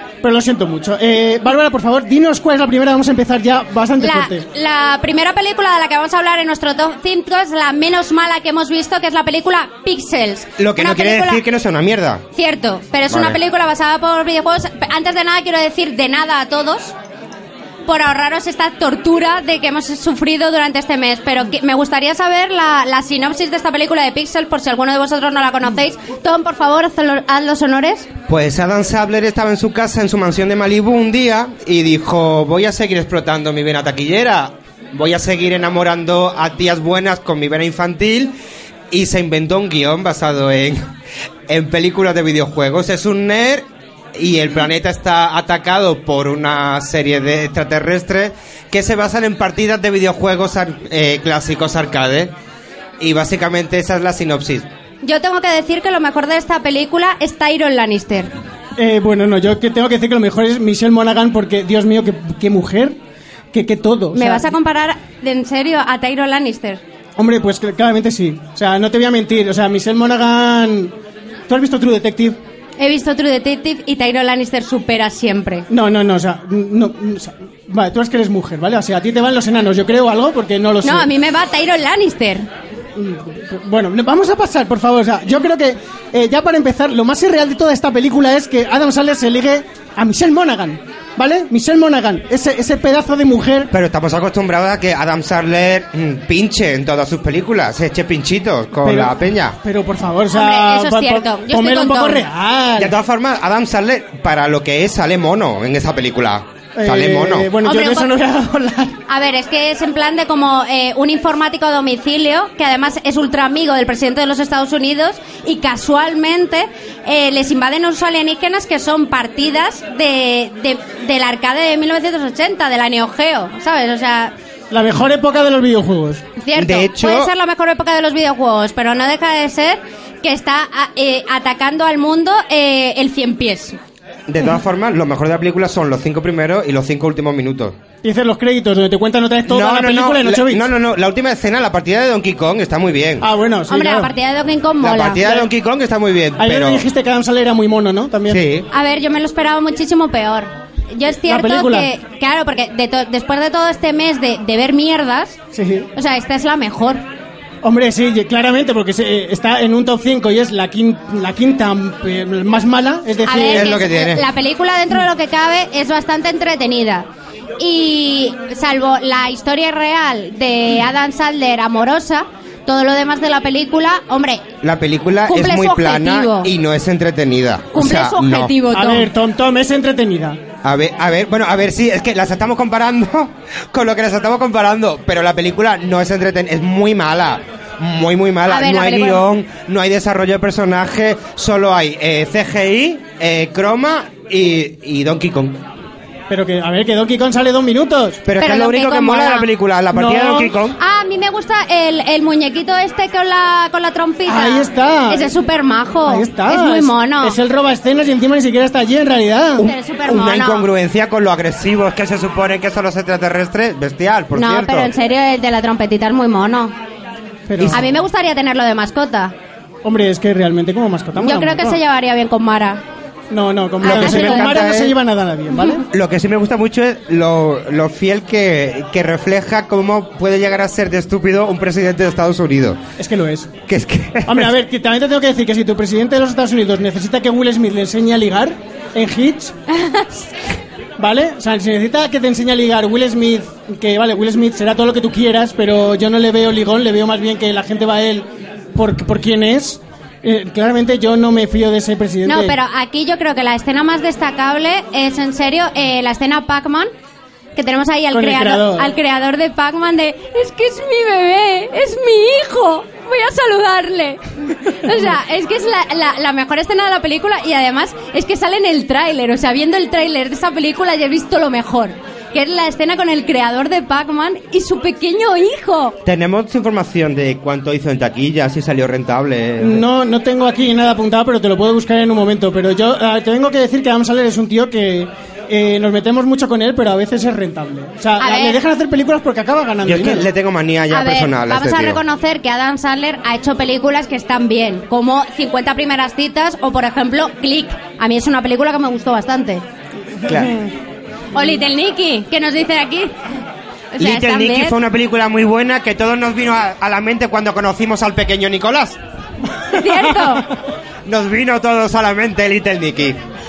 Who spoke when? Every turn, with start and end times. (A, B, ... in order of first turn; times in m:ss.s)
0:00.2-0:04.4 A
0:04.0-0:11.4 B
0:10.6-0:12.2 C
0:12.4-0:17.0 B
0:13.1-0:13.4 C
0:17.9-0:28.1 B
0:28.3-0:38.4 C
0:38.9-0:40.9 C
0:41.5-0:52.3 C
0:53.0-0:54.7 C
0:55.0-0:58.3 B
0:58.8-1:03.0 A
1:03.5-1:04.5 A
1:04.1-1:06.8 B
1:07.2-1:10.9 A
1:11.5-1:12.4 A
1:12.8-1:15.7 B
1:15.7-1:21.1 A
1:20.8-1:22.5 B
1:23.0-1:33.7 A
1:33.7-1:39.6 C
1:38.8-1:42.9 A
1:40.3-1:42.3 B
1:42.8-1:47.5 C
1:46.8-1:49.0 A
1:47.6-1:48.1 B
1:49.1-2:04.3 B
2:04.7-2:06.2 A
2:06.4-2:13.8 B
2:06.6-2:07.3 C
2:14.3-2:17.8 C
2:18.0-2:20.7 A
2:19.5-2:23.3 C
2:23.2-2:24.1 A
2:23.7-2:25.5 B
2:24.8-2:26.8 C
2:26.4-2:28.4 A
2:28.3-2:28.7 C
2:28.7-2:35.4 B
2:31.3-2:31.9 A
2:35.5-2:35.9 A
2:36.0-2:37.0 B
2:37.6-2:43.8 A
2:43.2-2:47.1 B
2:43.5-2:44.2 C
2:47.6-2:54.4 B
2:54.6-2:58.5 C
2:55.3-2:56.5 B
2:57.7-2:59.1 B
2:58.7-3:00.4 A
3:00.6-3:15.6 C
3:08.5-3:09.2 B
3:16.3-3:18.2 A
3:18.2-3:20.8 C
3:18.4-3:19.5 B
3:19.9-3:20.5 A
3:20.8-3:27.4 B
3:24.3-3:25.3 A
3:26.1-3:29.6 A
3:29.6-3:34.9 C
3:29.6-3:30.6 B
3:34.4-3:36.7 B
3:37.5-3:37.8 A
3:37.6-3:37.8 C
3:37.7-3:39.4 B
3:39.8-3:41.8 A
3:41.2-3:42.8 B
3:43.3-3:45.8 A
3:43.8-3:44.7 B
3:43.8-3:45.0 C
3:45.9-3:52.8 C
3:53.0-3:53.5 A
3:53.7-3:54.5 C
3:54.3-3:59.5 A
3:59.7-4:00.2 B
4:01.0-4:12.6 A
4:12.2-4:16.9 B
4:17.6-4:36.0 B
4:18.1-4:18.9 A
4:36.0-4:39.8 C
4:39.6-4:50.3 A
4:48.2-4:48.6 B
4:49.8-4:52.0 C
4:50.9-4:59.6 B
5:00.2-5:00.6 A
5:00.3-5:00.6 C
5:01.3-5:03.2 B
5:03.9-5:04.8 B
5:04.0-5:09.0 C
5:09.6-5:10.4 A
5:09.7-5:10.5 B
5:11.0-5:13.2 C